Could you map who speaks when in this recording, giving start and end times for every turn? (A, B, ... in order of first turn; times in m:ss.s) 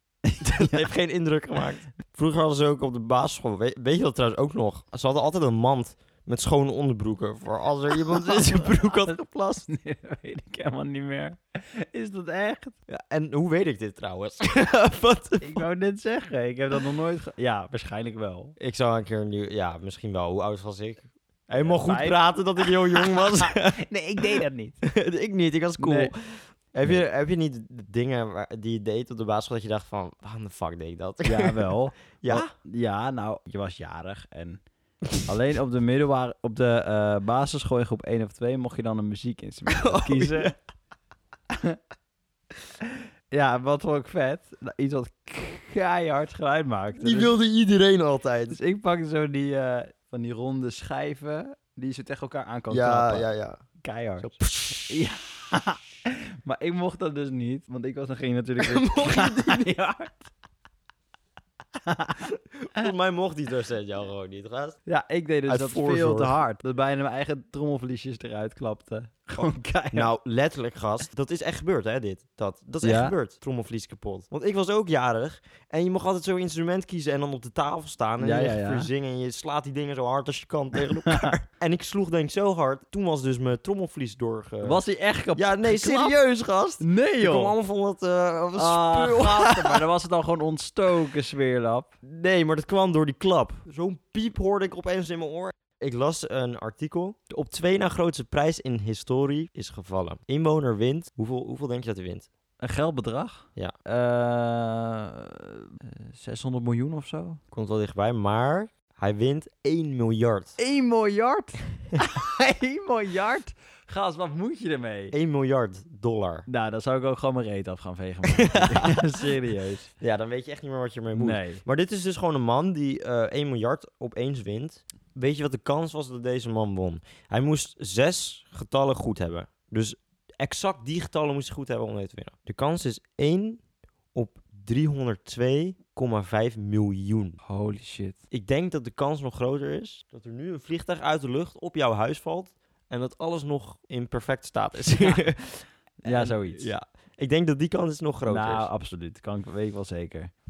0:00.4-0:09.6 A
0:08.0-0:12.7 B
0:12.9-0:15.6 A
0:15.4-0:18.5 B
0:18.6-0:32.5 A
0:21.5-0:24.8 B
0:25.8-0:26.1 B
0:31.2-0:34.6 B
0:35.3-0:40.5 B
0:39.7-0:40.6 A
0:43.3-0:47.3 B
0:47.0-0:48.6 A
0:48.5-0:53.3 B
0:52.7-0:53.6 A
0:53.8-1:00.3 B
0:54.2-0:55.0 A
0:58.6-0:59.7 A
1:01.8-1:02.2 B
1:02.2-1:04.8 A
1:04.8-1:10.1 B
1:05.4-1:06.3 A
1:09.4-1:24.8 A
1:12.8-1:13.1 B
1:18.2-1:18.9 B
1:24.6-1:26.1 B
1:25.4-1:29.8 A
1:26.8-1:27.5 B
1:28.5-1:31.9 B
1:32.0-1:42.3 A
1:42.6-1:47.4 B
1:47.5-1:50.6 A
1:50.6-1:55.1 B
1:55.1-1:56.5 A
1:56.5-1:59.9 B
1:58.4-1:58.9 A
2:00.0-2:13.6 A
2:01.1-2:01.6 B
2:14.1-2:17.4 A
2:17.4-2:18.2 B
2:18.3-2:28.7 A
2:26.0-2:26.7 B
2:28.2-2:30.3 B